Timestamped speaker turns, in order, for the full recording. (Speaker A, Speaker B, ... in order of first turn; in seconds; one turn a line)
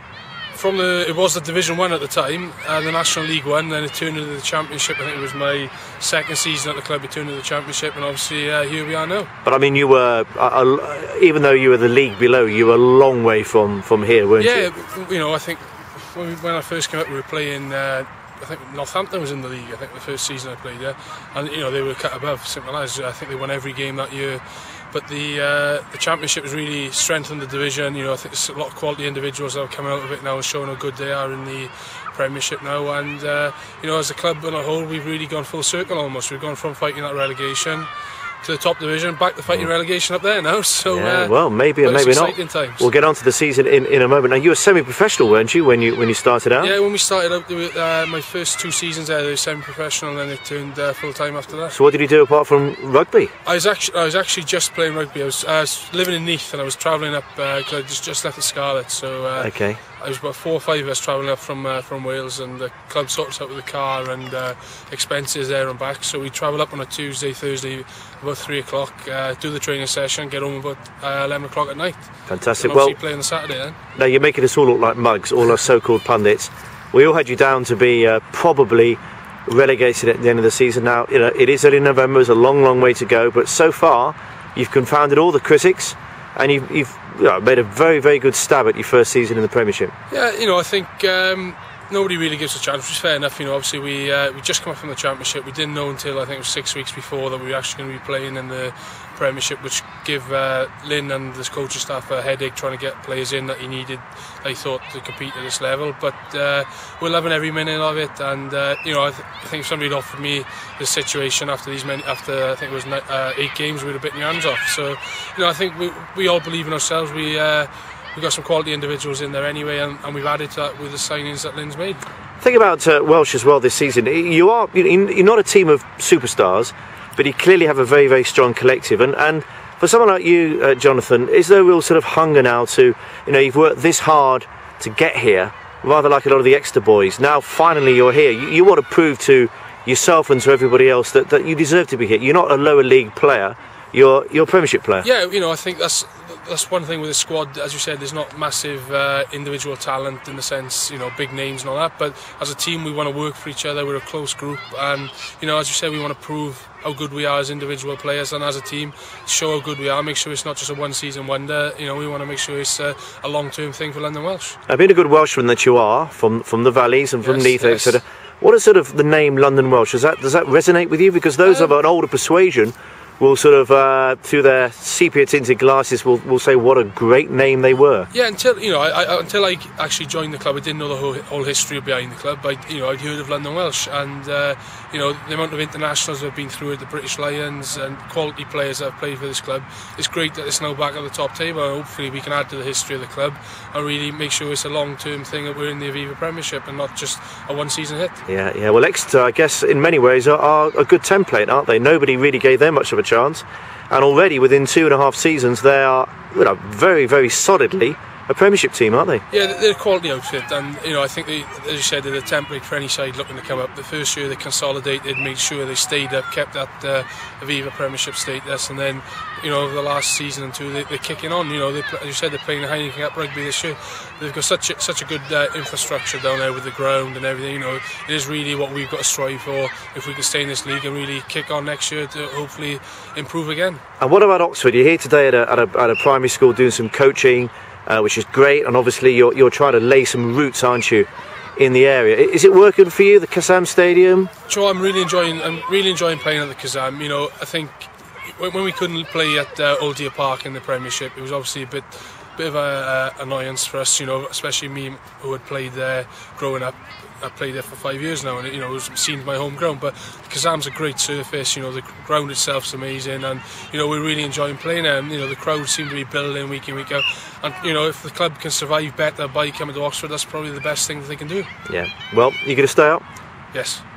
Speaker A: 0.5-9.3
Speaker B: 9.4-14.7
Speaker A: 14.4-37.9
Speaker A: 38.4-42.9
Speaker B: 40.9-46.7
Speaker A: 46.6-51.8
Speaker B: 51.7-53.3
Speaker A: 53.5-73.8
Speaker B: 59.4-59.8
Speaker B: 72.3-73.0
Speaker B: 74.0-89.9
Speaker A: 90.1-122.0
Speaker B: 122.4-145.1
Speaker A: 145.0-164.6
Speaker B: 164.7-178.1
Speaker A: 167.2-168.0
Speaker A: 171.4-171.7
Speaker A: 178.1-198.2
Speaker B: 198.3-209.2
Speaker A: 209.3-233.8
Speaker B: 234.0-244.3
Speaker A: 244.5-271.5
Speaker B: 271.7-273.0
Speaker A: 273.5-273.8